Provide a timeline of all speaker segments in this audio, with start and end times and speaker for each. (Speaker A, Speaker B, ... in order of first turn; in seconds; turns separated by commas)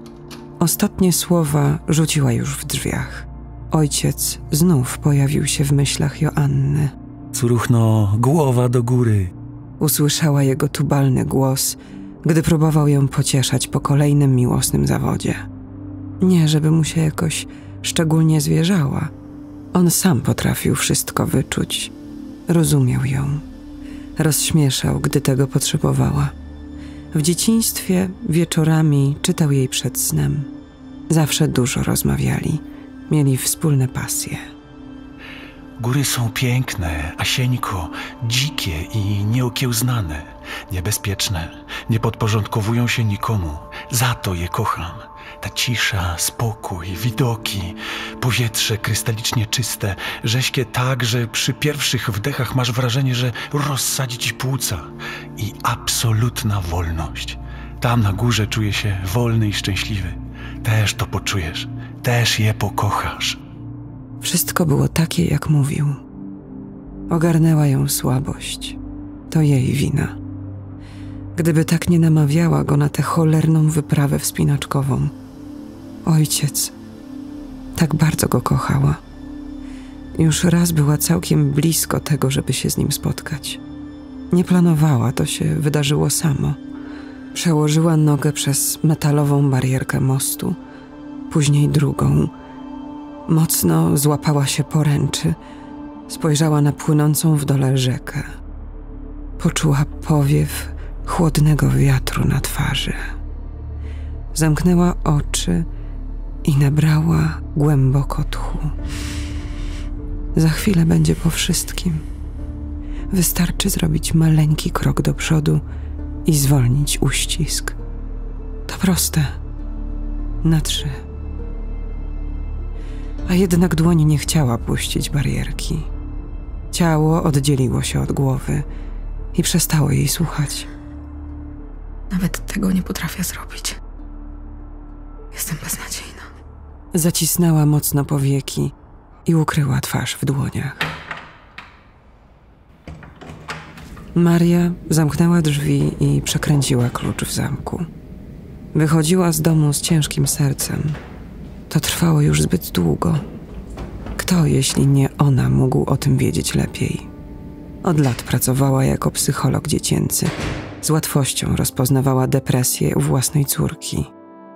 Speaker A: 0.6-6.9, Speaker B: 7.3-9.3, Speaker A: 9.8-15.5, Speaker A: 16.2-19.1, Speaker A: 19.7-21.9, Speaker A: 22.5-23.4, Speaker A: 24.2-26.3, Speaker A: 27.1-30.5, Speaker A: 31.1-34.4, Speaker B: 35.8-63.4, Speaker A: 64.2-66.0, Speaker A: 67.1-68.8, Speaker A: 69.3-70.2, Speaker A: 71.4-75.1, Speaker A: 76.0-76.8, Speaker A: 77.8-79.0, Speaker A: 80.1-83.6, Speaker A: 84.3-86.6, Speaker A: 87.3-90.6, Speaker A: 91.3-92.3, Speaker A: 93.3-95.4, Speaker A: 96.1-98.3, Speaker A: 99.4-103.0, Speaker A: 104.3-105.7, Speaker A: 106.4-108.7, Speaker A: 110.3-112.0, Speaker A: 113.1-115.6, Speaker A: 116.2-117.8, Speaker A: 118.7-119.4, Speaker A: 120.4-121.0, Speaker A: 123.3-125.9, Speaker A: 126.7-128.7, Speaker A: 129.3-130.7, Speaker C: 132.1-133.8, Speaker C: 135.3-136.3, Speaker A: 136.9-138.7, Speaker A: 139.2-140.9, Speaker A: 144.2-147.9, Speaker A: 148.7-151.0, Speaker A: 151.7-153.2, Speaker A: 154.2-157.1, Speaker A: 157.8-164.1